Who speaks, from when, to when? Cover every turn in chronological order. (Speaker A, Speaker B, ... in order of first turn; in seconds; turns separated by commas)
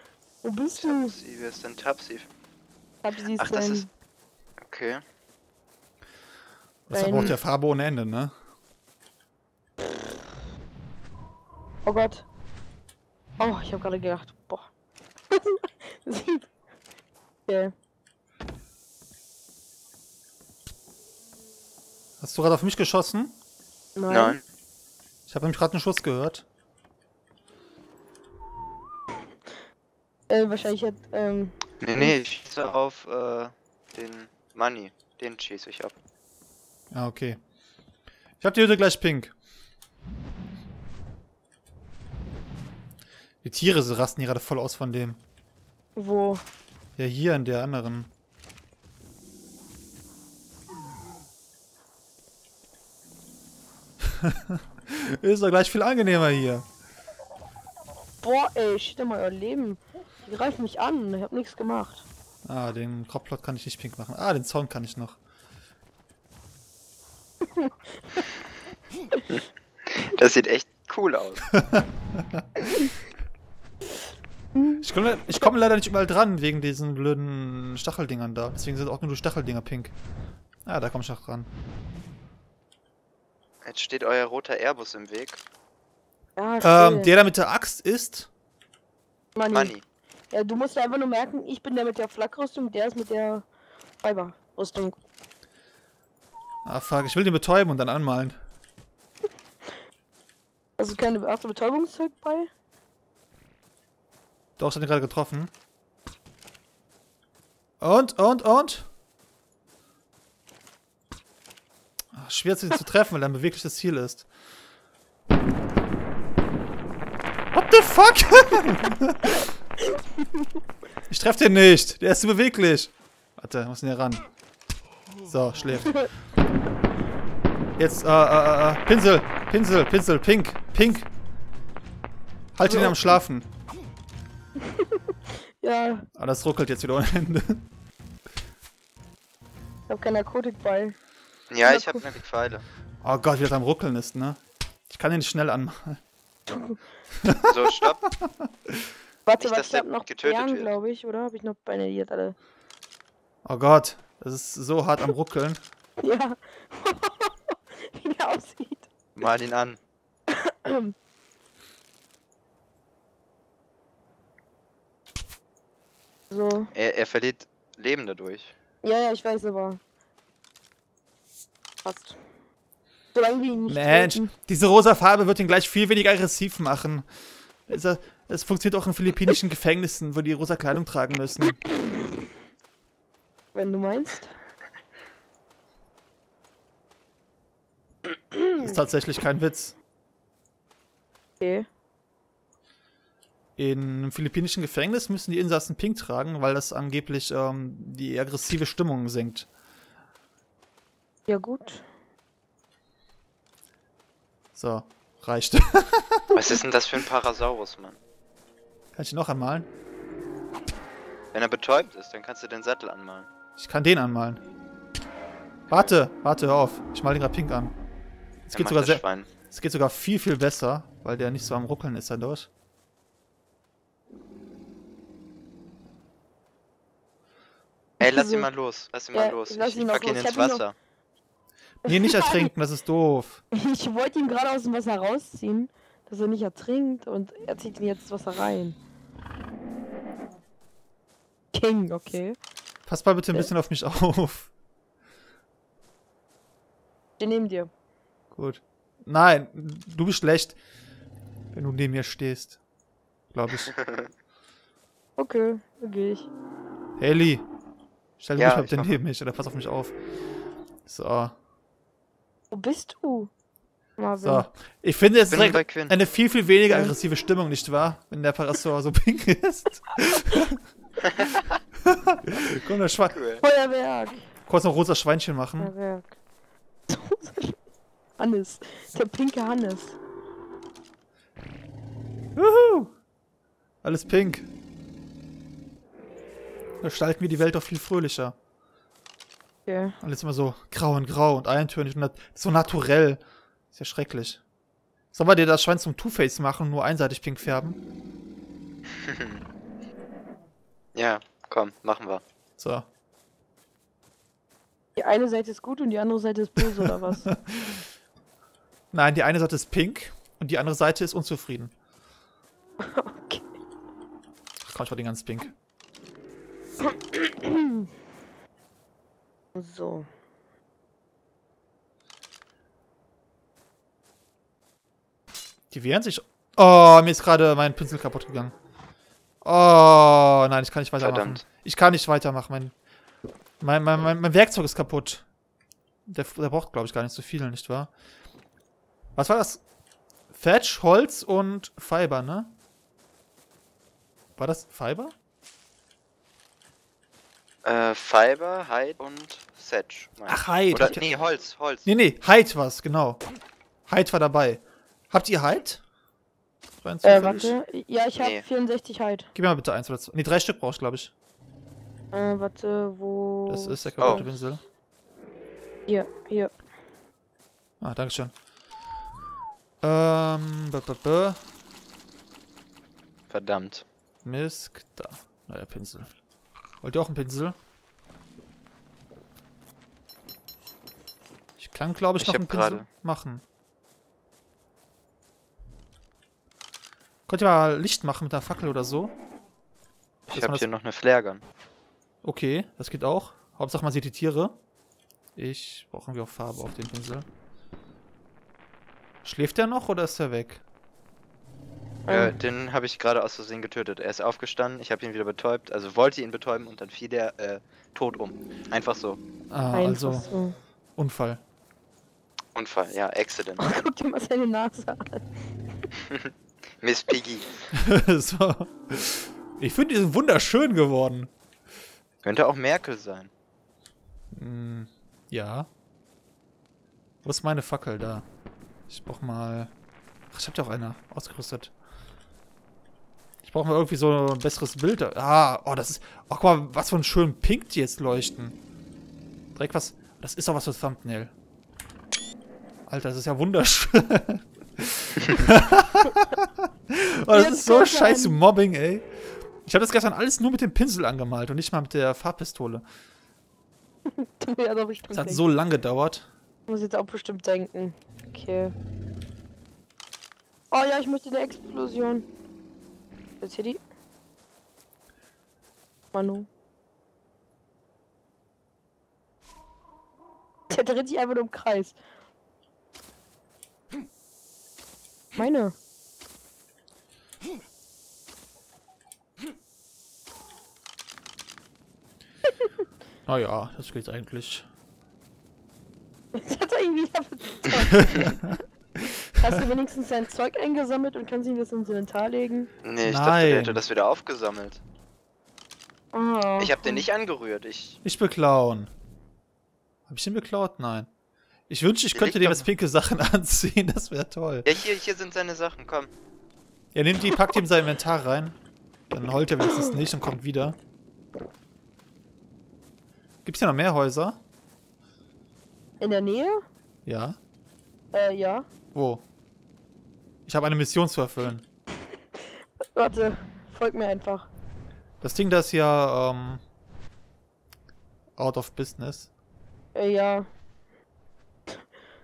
Speaker A: 0.4-1.1, Speaker B: 0.8-2.3, Speaker A: 3.0-3.9, Speaker B: 3.4-3.9, Speaker B: 4.6-5.0, Speaker C: 6.9-8.3, Speaker A: 6.9-7.3, Speaker A: 11.9-12.2, Speaker A: 13.4-14.7, Speaker A: 15.3-16.5, Speaker A: 17.5-17.7, Speaker C: 22.2-23.4, Speaker A: 24.0-24.4, Speaker B: 24.1-24.4, Speaker C: 25.3-26.4, Speaker A: 30.3-32.1, Speaker B: 31.8-35.9, Speaker C: 36.9-37.4, Speaker C: 38.4-39.3, Speaker C: 43.4-45.2, Speaker A: 46.0-46.4, Speaker C: 47.0-48.1, Speaker C: 54.0-56.7, Speaker A: 58.2-62.0, Speaker C: 62.5-65.2, Speaker A: 67.6-68.2, Speaker B: 69.3-71.6, Speaker C: 71.5-72.4, Speaker C: 74.8-80.0, Speaker C: 80.7-81.5, Speaker B: 83.6-85.4, Speaker A: 86.4-87.1, Speaker C: 86.6-88.3, Speaker A: 89.3-89.7, Speaker B: 89.5-89.8, Speaker A: 90.3-93.5, Speaker A: 94.0-95.0, Speaker C: 96.7-98.4, Speaker A: 100.8-102.5, Speaker C: 104.6-105.5, Speaker C: 107.8-108.9, Speaker C: 112.1-114.3, Speaker C: 117.5-119.5, Speaker A: 119.9-120.5, Speaker C: 121.1-124.2, Speaker C: 125.2-126.1, Speaker C: 127.8-131.1, Speaker C: 132.6-133.5, Speaker A: 132.7-133.2, Speaker A: 134.6-136.1, Speaker C: 136.2-137.7, Speaker A: 139.9-141.0, Speaker B: 141.5-142.6, Speaker A: 141.7-142.0, Speaker C: 143.0-146.0, Speaker A: 146.5-146.8, Speaker C: 147.2-148.8, Speaker B: 147.4-148.1, Speaker A: 149.3-152.3, Speaker B: 149.4-150.8, Speaker C: 153.4-155.6, Speaker A: 156.0-158.9, Speaker B: 159.2-159.8, Speaker A: 160.3-160.9, Speaker A: 166.3-166.7, Speaker B: 166.7-168.5, Speaker A: 168.8-169.8, Speaker A: 171.8-172.2, Speaker A: 173.1-174.3, Speaker C: 173.7-177.1, Speaker C: 177.7-181.6, Speaker A: 183.5-184.3, Speaker C: 188.6-189.8, Speaker A: 191.4-191.7, Speaker C: 193.6-199.5, Speaker A: 201.3-201.9, Speaker C: 204.6-206.5, Speaker B: 206.3-208.0, Speaker C: 208.9-209.7, Speaker B: 211.3-213.3, Speaker C: 213.6-214.4, Speaker C: 215.7-217.8, Speaker C: 218.5-222.5, Speaker B: 218.5-219.3, Speaker A: 228.0-228.5, Speaker B: 228.0-230.8, Speaker A: 229.1-230.6, Speaker C: 231.8-233.4, Speaker A: 231.9-232.5, Speaker A: 233.5-238.8, Speaker A: 241.5-242.4, Speaker C: 242.9-244.5, Speaker A: 247.2-247.7, Speaker C: 248.3-250.6, Speaker C: 251.5-252.6, Speaker C: 253.3-253.7, Speaker B: 253.7-254.1, Speaker A: 255.2-256.3, Speaker C: 257.0-257.4, Speaker C: 258.2-260.0, Speaker B: 258.4-259.0, Speaker C: 260.9-261.3, Speaker A: 262.5-263.3, Speaker A: 264.0-264.5, Speaker C: 264.2-270.6, Speaker B: 265.3-265.9, Speaker B: 271.1-271.4, Speaker C: 271.8-273.2, Speaker B: 273.1-273.4, Speaker A: 273.4-274.2, Speaker C: 274.5-275.7, Speaker A: 275.6-276.2, Speaker A: 276.9-277.6, Speaker A: 278.2-280.0, Speaker C: 282.4-282.9, Speaker C: 283.8-284.5, Speaker C: 286.8-288.4, Speaker A: 289.7-290.0, Speaker C: 290.0-293.2, Speaker C: 293.7-294.4, Speaker C: 295.1-297.8, Speaker B: 299.0-299.4, Speaker B: 300.9-302.2, Speaker C: 302.6-302.9, Speaker A: 305.0-307.3, Speaker C: 306.6-307.8, Speaker C: 308.9-311.7, Speaker A: 312.8-313.5, Speaker C: 314.6-315.5, Speaker A: 316.9-317.9, Speaker A: 319.6-320.1, Speaker C: 325.7-328.6, Speaker C: 329.4-332.7, Speaker B: 331.0-331.4, Speaker C: 333.6-335.2, Speaker C: 336.1-337.9, Speaker C: 339.2-339.6, Speaker C: 340.3-342.5, Speaker C: 344.4-345.1, Speaker B: 347.6-351.9, Speaker C: 350.3-351.0, Speaker C: 351.9-353.2, Speaker C: 353.9-355.8, Speaker C: 356.8-357.5, Speaker A: 357.0-359.3, Speaker B: 357.1-357.5, Speaker B: 358.2-358.4, Speaker C: 359.4-361.1, Speaker A: 362.1-364.3, Speaker C: 363.5-364.6, Speaker A: 365.9-366.5, Speaker C: 367.8-368.3, Speaker C: 369.8-371.4, Speaker B: 373.3-373.9, Speaker C: 374.2-376.1, Speaker C: 376.8-377.6, Speaker C: 381.6-383.4, Speaker B: 382.2-382.9, Speaker C: 387.3-389.1, Speaker C: 390.3-390.7, Speaker B: 390.3-391.4, Speaker C: 392.2-394.6, Speaker C: 395.4-397.3, Speaker C: 399.2-400.6, Speaker A: 402.1-402.3, Speaker B: 402.1-409.2, Speaker C: 409.5-410.3, Speaker A: 409.7-410.6, Speaker C: 411.0-411.4, Speaker B: 412.6-413.8, Speaker A: 413.6-415.2, Speaker B: 416.1-417.5, Speaker C: 417.7-421.3, Speaker B: 422.2-423.3, Speaker C: 424.3-425.7, Speaker C: 427.2-428.3, Speaker C: 428.9-429.7, Speaker C: 430.3-431.7, Speaker C: 433.4-438.6, Speaker C: 439.6-441.3, Speaker C: 442.9-449.1, Speaker A: 447.3-448.4, Speaker C: 449.6-452.9, Speaker A: 454.1-455.4, Speaker C: 455.1-456.3, Speaker A: 456.7-458.7, Speaker A: 460.7-462.3, Speaker A: 463.4-463.8, Speaker A: 466.1-466.5, Speaker A: 470.7-472.0, Speaker A: 475.4-475.8, Speaker C: 483.3-484.7, Speaker A: 486.3-488.4, Speaker A: 489.4-492.7, Speaker B: 492.8-494.8, Speaker C: 493.0-493.8, Speaker A: 496.1-497.0, Speaker B: 496.6-498.0, Speaker C: 498.0-498.9, Speaker C: 500.1-501.1, Speaker C: 501.7-504.7, Speaker B: 502.1-502.7, Speaker B: 504.6-506.1, Speaker C: 506.9-508.6, Speaker C: 509.1-510.8, Speaker C: 513.5-514.4, Speaker A: 516.0-516.6, Speaker C: 517.1-517.4, Speaker A: 518.1-518.7, Speaker C: 518.9-519.2, Speaker C: 520.5-521.6, Speaker A: 522.9-524.5, Speaker C: 525.2-526.6, Speaker C: 528.4-529.3, Speaker A: 530.0-530.5